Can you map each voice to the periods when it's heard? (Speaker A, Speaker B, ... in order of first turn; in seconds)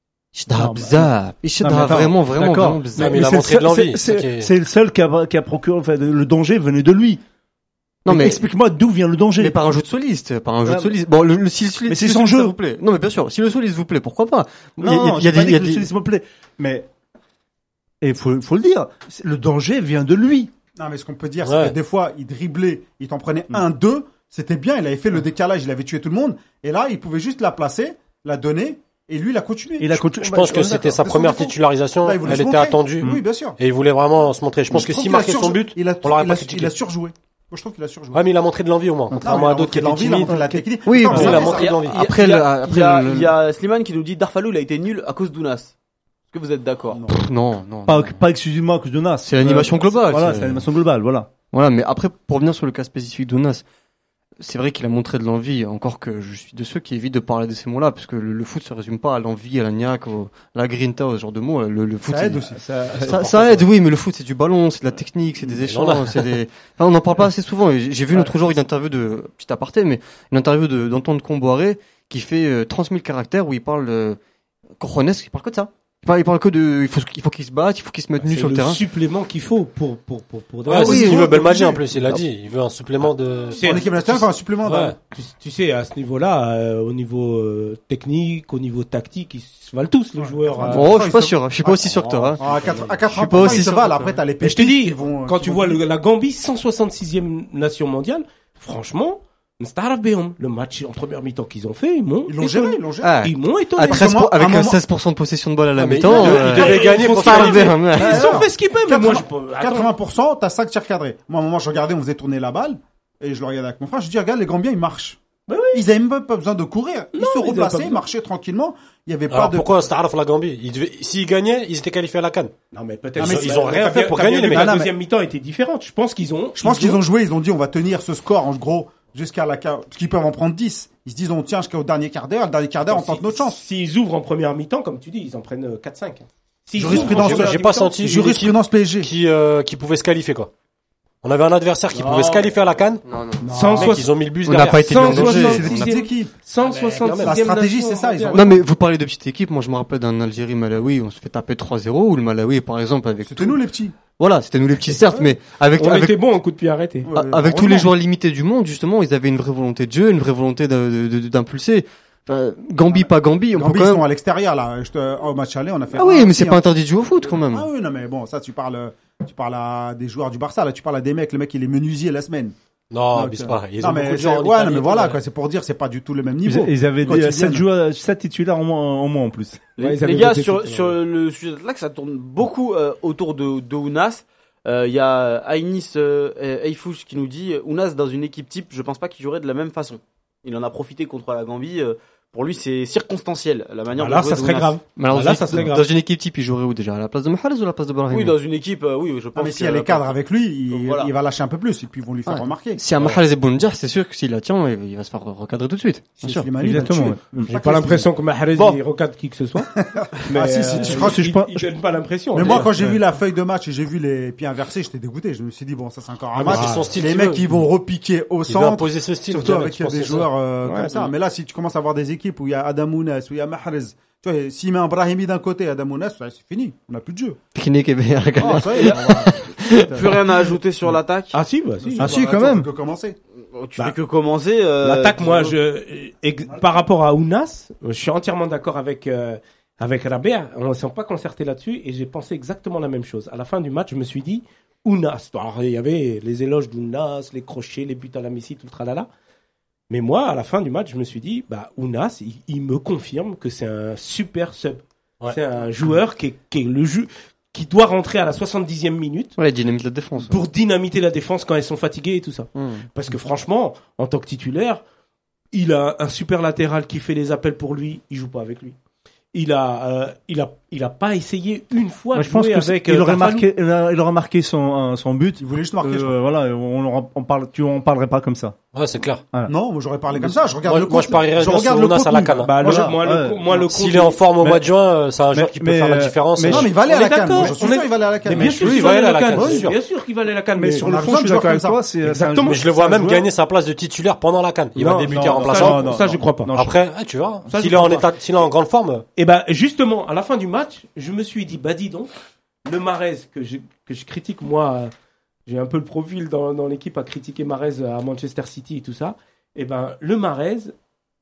Speaker A: 0.3-3.2, 8.0-8.4, 9.4-15.9, 40.9-43.3, 47.1-48.2, 49.2-50.6, 51.5-53.6, 54.4-74.2, 74.8-78.8, 80.8-81.5, 90.6-94.1, 103.0-108.5, 143.0-143.7, 144.4-146.0, 148.3-156.2, 157.1-164.1, 165.9-167.7, 194.9-198.3, 202.3-206.2, 227.5-230.1, 259.4-260.4, 262.5-262.9
Speaker B: 0.5-7.2, 8.1-9.8, 10.6-10.9, 11.9-12.5, 14.8-16.9, 18.0-20.5, 29.8-31.0, 39.1-41.4, 47.9-51.3, 62.6-63.2, 176.4-179.6, 206.2-207.5, 210.8-211.7, 212.5-213.0, 232.0-232.7, 272.1-278.6, 282.6-283.4, 285.3-286.7, 290.6-293.2, 295.1-296.7
Speaker C: 2.9-4.5, 21.4-21.8, 30.2-36.7, 38.1-40.3, 41.0-42.0, 62.9-63.6, 65.6-66.4, 80.7-84.1, 84.6-85.0, 105.7-107.8, 119.3-122.5, 123.2-124.8, 136.8-140.5, 141.2-143.1, 143.7-145.4, 146.7-147.4, 172.9-175.2, 202.9-203.2, 216.3-217.5, 218.4-220.3, 278.7-279.2, 280.6-282.8, 283.5-286.7, 288.3-289.8, 292.4-296.0, 296.5-299.0
Speaker D: 20.8-30.1, 31.0-33.6, 34.7-38.2, 39.2-41.7, 46.9-47.2, 62.0-62.6, 80.8-81.8, 83.6-85.0, 90.2-95.8, 102.3-103.2, 103.9-104.8, 106.1-115.2, 115.7-119.7, 123.2-123.7, 124.5-124.9, 126.6-133.6, 136.8-139.1, 143.4-144.0, 144.9-146.3, 147.0-148.6, 153.2-153.9, 157.1-157.9, 162.9-166.6, 167.4-172.5, 173.1-177.6, 199.3-202.8, 206.2-208.1, 209.7-211.2, 212.3-227.4, 228.4-230.1, 231.8-233.2, 275.4-276.1, 279.4-282.4, 286.4-288.8, 289.3-289.6, 290.8-291.8
Speaker E: 41.3-45.7, 46.3-47.0, 179.8-194.8, 198.1-200.1, 200.7-201.1, 229.9-231.3, 233.5-235.5
Speaker F: 78.2-81.1, 83.5-84.2, 85.1-91.0, 94.4-104.1, 106.1-109.9, 115.5-115.8, 117.1-118.0, 122.7-127.0, 132.9-137.9, 141.9-142.5, 143.5-144.1, 144.7-148.4, 155.8-157.1, 179.8-180.9, 193.9-195.9, 207.5-212.7, 216.5-216.9, 220.6-221.1, 231.3-232.2, 234.8-249.1, 249.9-259.3, 260.2-264.8, 265.5-268.8, 269.3-273.5, 282.4-284.2, 286.5-290.9, 292.0-292.6, 294.8-296.5, 297.5-298.1, 299.1-302.1, 302.6-304.9, 305.5-310.7